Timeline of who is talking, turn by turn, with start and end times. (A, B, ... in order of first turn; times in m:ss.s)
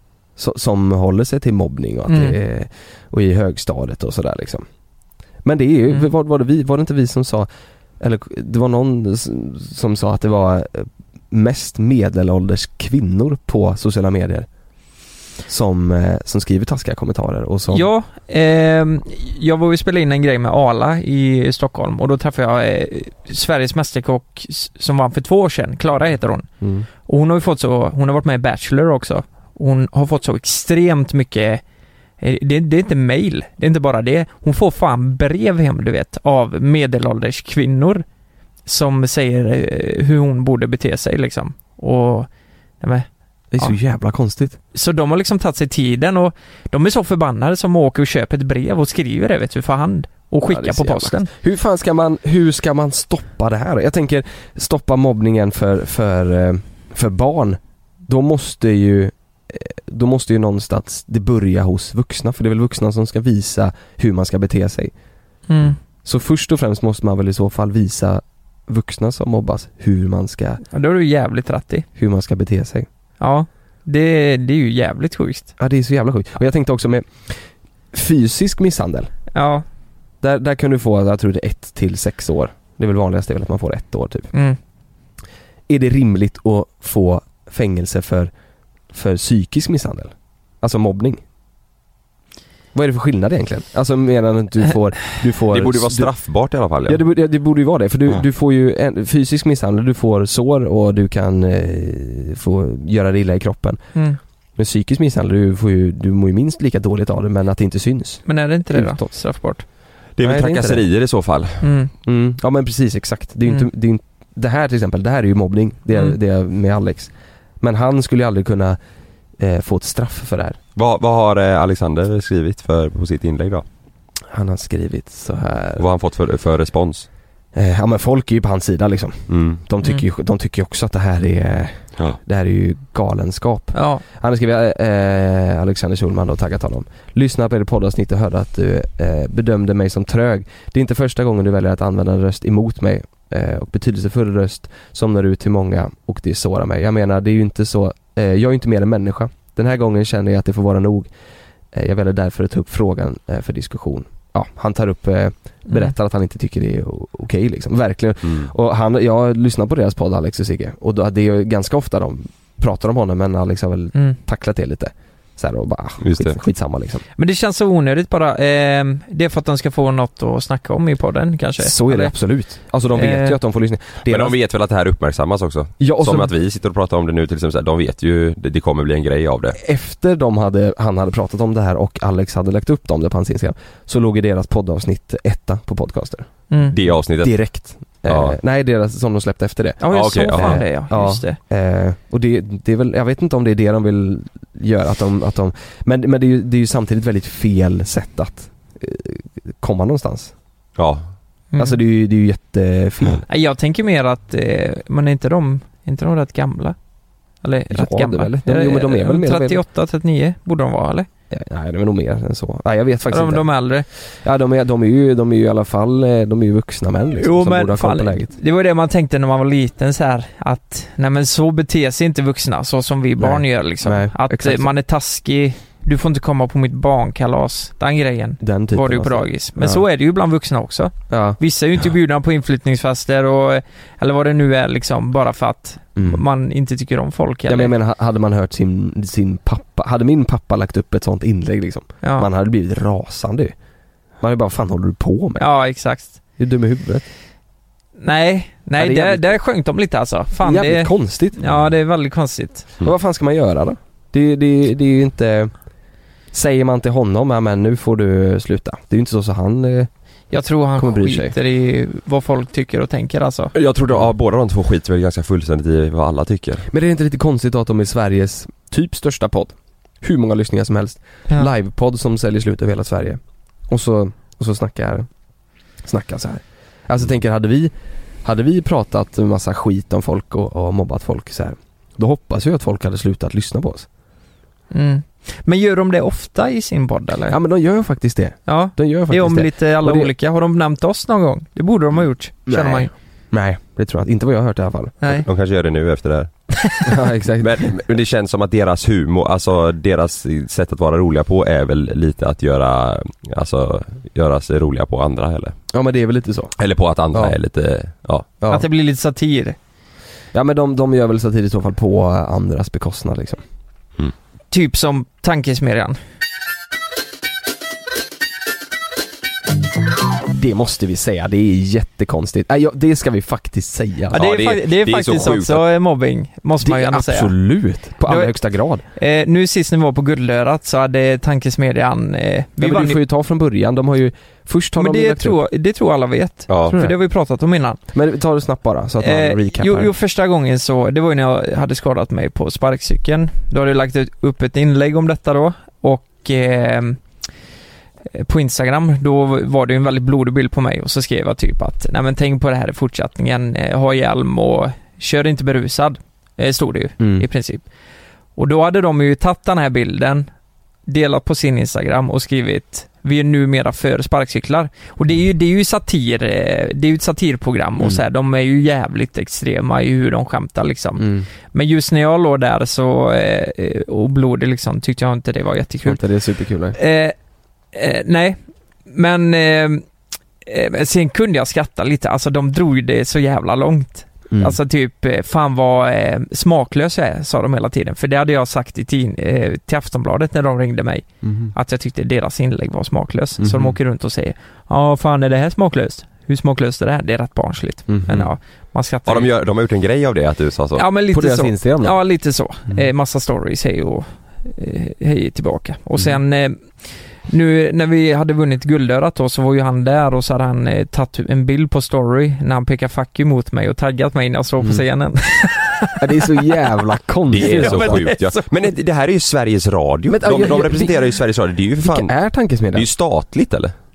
0:00.4-0:04.6 A
0:02.1-0:02.4 B
0:05.4-0:07.5 A
0:08.0-0:14.5 A
0:15.5-0:17.9 A
0:17.7-0:26.5 B
0:26.6-0:26.9 A
0:27.0-0:31.6 B
0:32.2-0:38.0 B
0:38.6-0:42.3 B
0:42.8-0:43.1 B
0:43.5-0:44.6 A
0:44.7-0:51.3 B
0:50.5-1:04.9 A
1:05.5-1:05.8 B
1:06.0-1:10.6 A
1:10.7-1:11.8 B
1:12.0-1:12.9 A
1:13.2-1:15.5 B
1:15.6-1:17.4 A
1:17.9-1:19.1 A
1:19.3-1:19.6 B
1:20.2-1:24.3 A
1:24.3-1:24.6 B
1:25.7-1:28.3 A
1:28.9-1:31.2 A
1:32.7-1:36.1 A
1:35.5-1:37.0 C
1:36.8-1:43.8 A
1:44.6-1:49.1 A
1:48.3-1:49.6 B
1:50.2-1:51.6 C
1:50.2-1:50.8 A
1:51.6-1:51.9 B
1:52.0-1:58.8 A
1:59.4-2:00.6 A
2:00.8-2:03.6 C
2:04.3-2:05.9 A
2:05.8-2:07.1 C
2:07.5-2:31.1 A
2:09.3-2:09.6 C
2:13.7-2:14.0 B
2:31.7-2:47.0 A
2:46.0-2:46.4 C
2:47.2-2:52.1 B
2:51.6-2:54.4 A
2:52.9-2:53.4 B
2:54.1-2:59.6 C
2:55.8-2:56.3 A
2:59.6-3:06.3 A
3:06.7-3:07.4 C
3:07.0-3:20.3 A
3:08.1-3:08.4 C
3:09.8-3:11.4 B
3:09.9-3:10.6 C
3:20.8-3:21.1 C
3:21.5-3:21.8 B
3:21.6-3:23.2 A
3:23.3-3:26.8 B
3:27.4-3:31.1 B
3:27.7-3:29.6 A
3:31.3-3:33.5 A
3:33.1-3:33.8 B
3:34.2-3:38.3 A
3:37.2-3:57.7 B
3:43.2-3:44.7 A
3:48.4-3:49.8 A
3:51.1-3:51.4 A
3:56.0-3:56.2 A
3:57.5-4:03.5 A
4:02.0-4:02.3 B
4:04.2-4:05.4 A
4:05.4-4:06.2 B
4:06.4-4:07.0 A
4:08.0-4:12.6 B
4:08.8-4:09.4 A
4:10.4-4:11.4 A
4:12.8-4:15.5 A
4:16.3-4:19.9 A
4:20.3-4:23.5 B
4:20.8-4:21.3 A
4:23.5-4:26.6 C
4:26.7-4:35.1 A
4:35.8-4:37.7 A
4:38.2-4:43.9 A
4:44.7-4:47.4 B
4:47.3-4:50.1 A
4:48.5-4:52.9 B
4:52.5-4:55.0 A
4:55.1-4:56.4 C
4:56.8-4:57.6 A
4:57.4-5:05.6 C
5:05.7-5:06.6 A
5:06.6-5:08.3 C
5:08.5-5:09.6 B
5:10.3-5:13.4 A
5:14.5-5:16.0 B
5:20.3-5:24.2 A
5:24.1-5:25.6 C
5:24.1-5:27.3 B
5:26.6-5:28.8 A
5:28.1-5:28.3 B
5:28.9-5:33.0 B
5:32.6-5:35.4 A
5:34.8-5:37.8 B
5:36.5-5:36.8 C
5:36.7-5:36.9 A
5:37.9-5:39.9 A
5:39.0-5:47.0 B
5:48.1-5:57.6 B
5:57.0-5:57.2 A
5:58.4-6:00.3 B
6:00.9-6:16.0 B
6:07.8-6:08.0 A
6:11.0-6:11.3 A
6:15.8-6:16.8 A
6:16.7-6:17.1 B
6:17.7-6:18.4 B
6:18.9-6:19.8 B
6:20.4-6:39.3 B
6:24.3-6:24.6 A
6:31.2-6:31.5 A
6:33.4-6:33.8 A
6:37.9-6:38.3 A
6:39.0-6:40.9 C
6:40.8-6:56.5 B
6:41.1-6:42.0 A
6:56.0-6:58.0 A
6:57.3-7:02.1 C
6:57.4-6:58.5 B
7:00.1-7:01.1 A
7:01.8-7:02.9 A
7:02.7-7:03.7 C